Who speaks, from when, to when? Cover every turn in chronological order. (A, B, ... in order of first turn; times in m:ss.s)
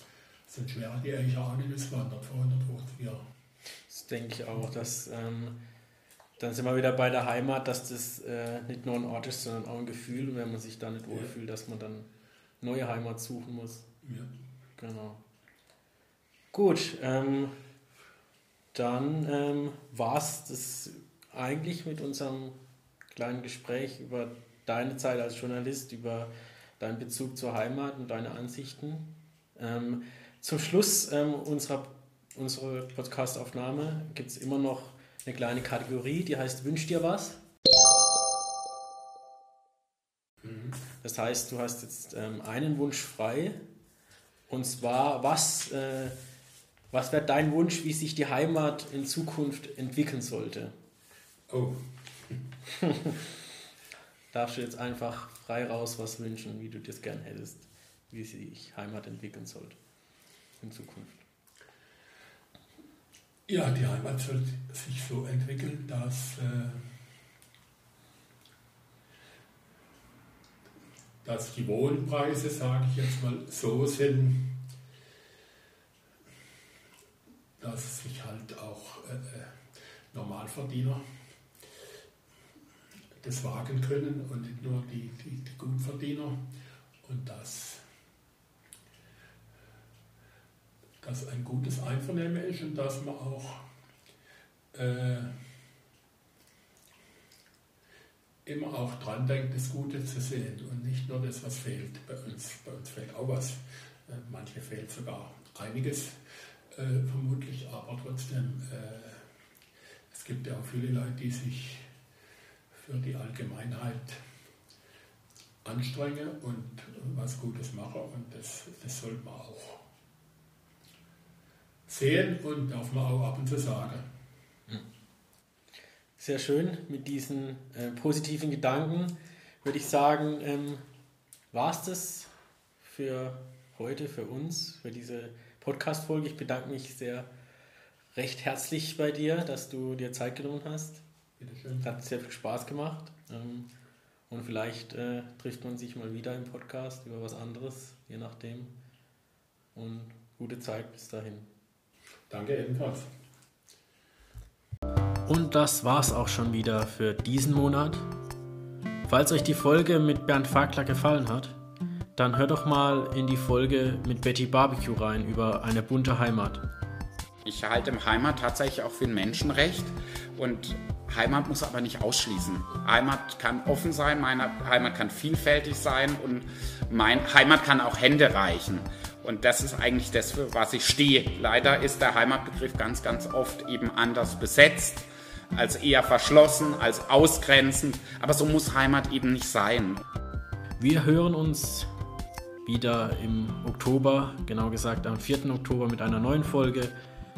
0:00.5-0:03.2 A
0:03.9-0:05.6 B
0:06.4-0:12.1 B
0:12.6-0:13.9 B
0:14.0-0:14.3 A
0:14.8-0:15.2 B
0:16.5-0:17.6 B
0:18.7-0:22.6 B
0:23.1-0:37.4 B
0:40.4-0:40.8 A
0:41.0-0:43.6 B
0:44.5-0:46.2 B
0:46.9-0:50.7 B
0:51.5-0:52.4 A
0:54.3-0:59.8 B
1:00.6-1:01.2 B
1:03.5-1:06.9 A
1:11.2-1:14.6 A
1:17.6-1:21.0 A
1:23.2-1:26.5 A
1:27.0-1:27.8 A
1:31.0-1:33.6 A
1:34.7-1:35.3 A
1:38.4-1:49.3 A
1:50.1-1:51.9 A
1:52.7-1:54.2 A
1:55.6-1:59.8 A
2:01.9-2:04.1 A
2:06.2-2:10.8 B
2:11.5-2:17.3 B
2:18.2-2:21.0 B
2:21.4-2:21.9 A
2:21.8-2:23.7 B
2:24.3-2:28.8 B
2:29.8-2:31.5 B
2:32.3-2:33.1 A
2:35.3-2:38.1 B
2:39.1-2:41.6 B
2:42.2-2:46.6 B
2:47.4-3:10.0 C
3:10.8-3:11.9 B
3:12.7-3:17.0 B